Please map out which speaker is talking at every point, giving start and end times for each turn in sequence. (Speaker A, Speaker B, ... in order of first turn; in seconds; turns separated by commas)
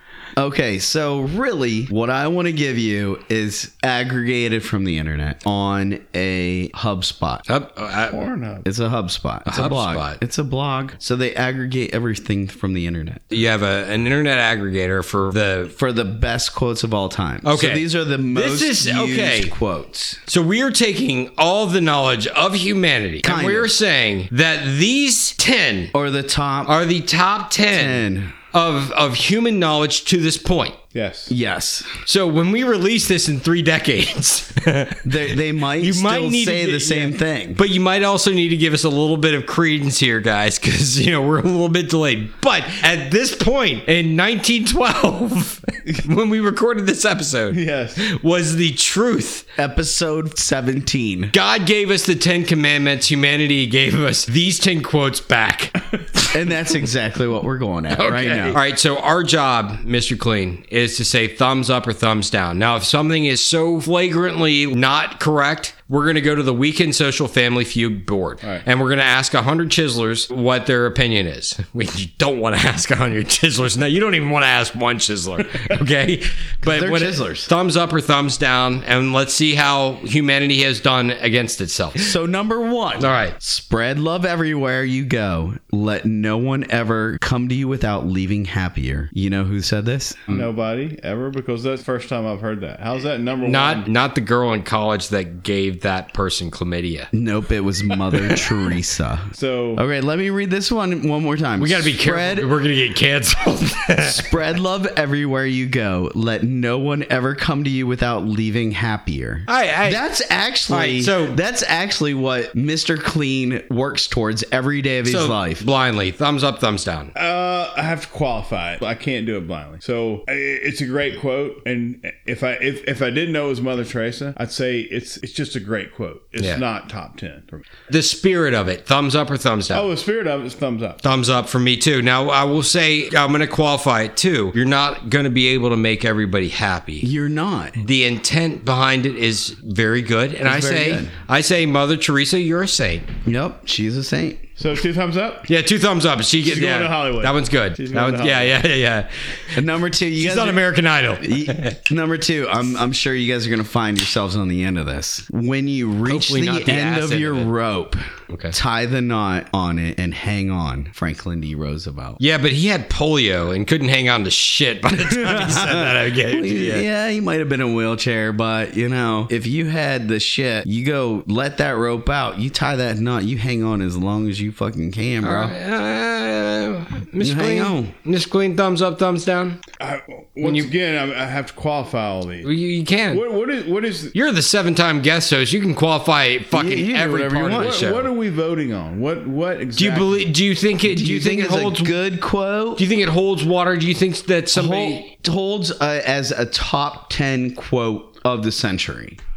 Speaker A: 0.4-7.4, Speaker B: 7.5-8.2, Speaker C: 8.1-8.7, Speaker A: 8.6-13.3, Speaker B: 9.5-10.2, Speaker B: 13.3-15.7, Speaker A: 15.7-20.2, Speaker B: 17.4-19.5, Speaker B: 20.3-25.9, Speaker A: 23.2-23.7, Speaker A: 25.9-26.8, Speaker B: 26.6-30.8, Speaker A: 27.6-28.3, Speaker C: 30.9-31.3, Speaker A: 31.3-31.9, Speaker B: 32.0-35.1, Speaker A: 35.0-37.6, Speaker B: 35.8-49.5, Speaker C: 47.5-48.0, Speaker A: 49.5-51.3, Speaker B: 51.3-55.7, Speaker A: 56.3-58.6, Speaker B: 57.9-82.1, Speaker A: 76.6-77.5, Speaker A: 82.0-90.5, Speaker B: 83.0-83.3, Speaker C: 90.3-93.9, Speaker B: 93.4-97.1, Speaker A: 97.1-102.5, Speaker C: 99.3-99.8, Speaker B: 101.6-104.2, Speaker A: 104.0-115.7, Speaker B: 109.5-110.0, Speaker B: 110.7-111.4, Speaker B: 115.0-117.1, Speaker C: 117.1-127.7, Speaker B: 127.9-129.9, Speaker C: 129.7-131.0, Speaker B: 131.0-137.1, Speaker A: 137.0-137.8, Speaker B: 137.8-143.1, Speaker A: 140.4-141.1, Speaker A: 143.2-144.4, Speaker C: 144.6-145.5, Speaker B: 145.5-149.1, Speaker C: 146.4-148.6, Speaker A: 149.5-150.6, Speaker B: 150.2-151.8, Speaker A: 151.2-162.2, Speaker B: 156.1-157.5, Speaker B: 162.2-166.8, Speaker A: 164.9-175.5, Speaker B: 175.2-179.6, Speaker A: 177.2-177.9, Speaker C: 179.8-182.5, Speaker B: 180.4-180.7, Speaker B: 182.4-183.2, Speaker C: 183.1-184.1, Speaker B: 184.1-188.1, Speaker A: 186.5-187.8, Speaker C: 187.5-190.3, Speaker B: 189.8-192.0, Speaker A: 190.8-192.8, Speaker B: 192.8-195.1, Speaker A: 194.5-199.2